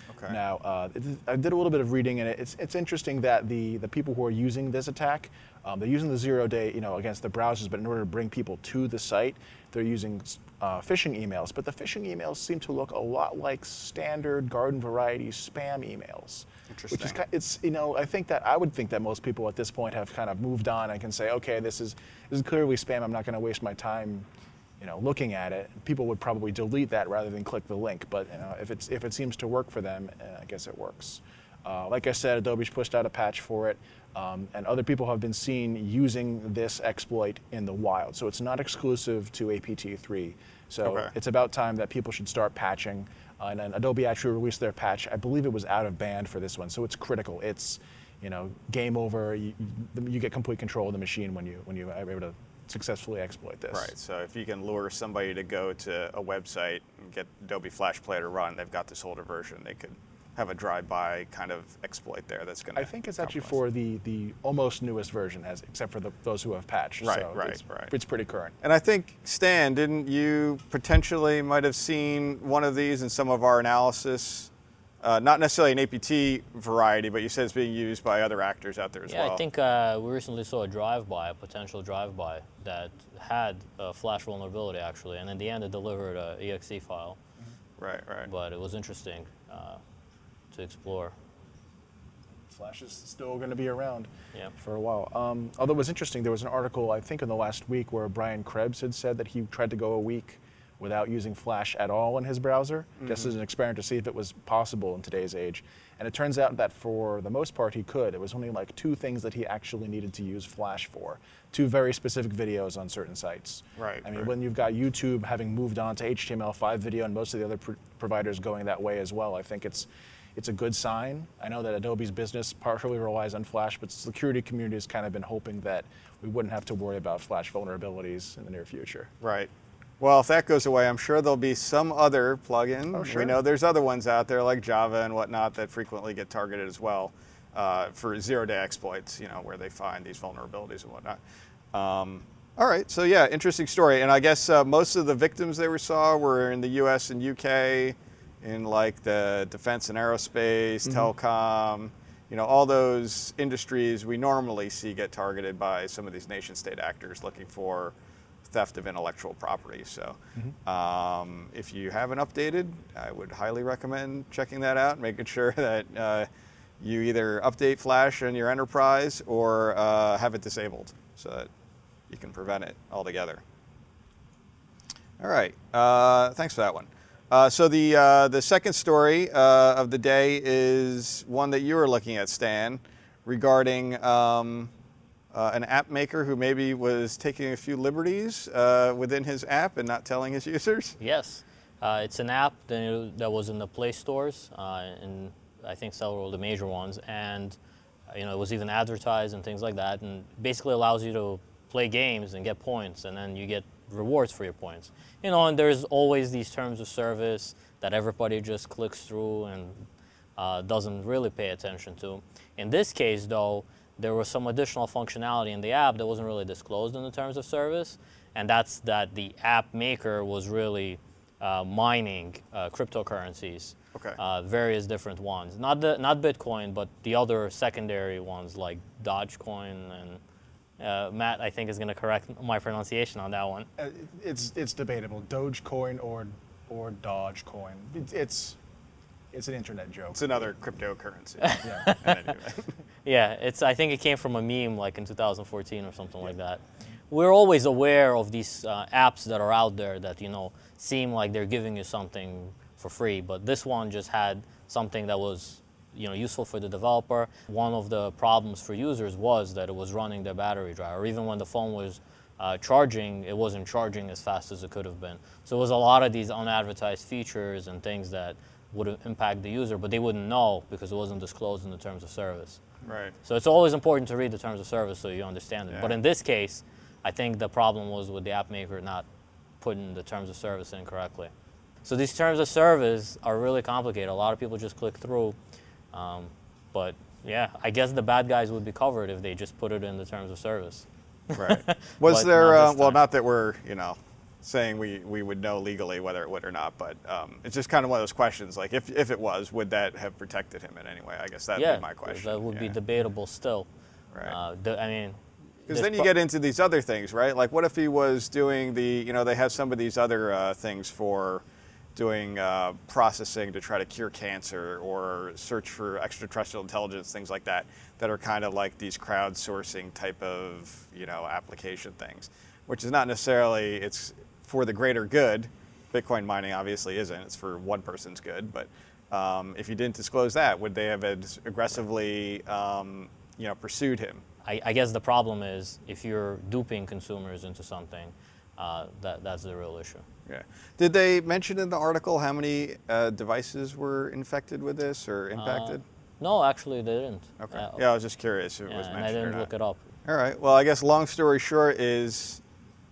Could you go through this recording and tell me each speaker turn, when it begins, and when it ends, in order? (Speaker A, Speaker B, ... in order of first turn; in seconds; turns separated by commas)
Speaker A: 0.3-24.3, Speaker B: 16.7-17.2, Speaker A: 24.8-53.9, Speaker B: 40.8-41.1, Speaker B: 53.7-63.5, Speaker A: 62.8-68.5, Speaker B: 67.0-67.9, Speaker B: 68.6-74.5, Speaker B: 75.0-79.4, Speaker C: 79.1-87.2, Speaker B: 87.8-88.3, Speaker C: 88.2-89.8, Speaker C: 90.5-91.1, Speaker A: 92.5-129.1, Speaker B: 103.0-103.3, Speaker B: 113.8-114.3, Speaker B: 129.2-141.2, Speaker A: 132.9-133.4, Speaker B: 141.7-157.9, Speaker B: 158.5-166.3, Speaker B: 166.8-171.5, Speaker B: 172.1-173.4, Speaker B: 175.2-184.7, Speaker B: 185.3-191.0, Speaker C: 191.0-197.6, Speaker C: 198.1-230.2, Speaker C: 230.8-233.7, Speaker A: 233.8-238.6, Speaker A: 239.3-240.5, Speaker B: 240.1-242.7, Speaker C: 241.4-242.2, Speaker A: 241.6-242.0, Speaker C: 243.1-272.6, Speaker B: 272.9-273.1, Speaker C: 273.2-279.1, Speaker B: 275.7-276.0, Speaker C: 279.6-281.3, Speaker C: 281.9-285.4, Speaker C: 285.9-293.0, Speaker B: 291.3-302.8, Speaker C: 301.6-303.7, Speaker C: 304.2-306.1, Speaker B: 305.7-311.4, Speaker B: 311.9-334.2, Speaker C: 334.4-340.1, Speaker B: 340.3-345.8, Speaker C: 345.4-347.8, Speaker B: 347.4-349.5, Speaker C: 348.7-349.9, Speaker B: 350.1-352.4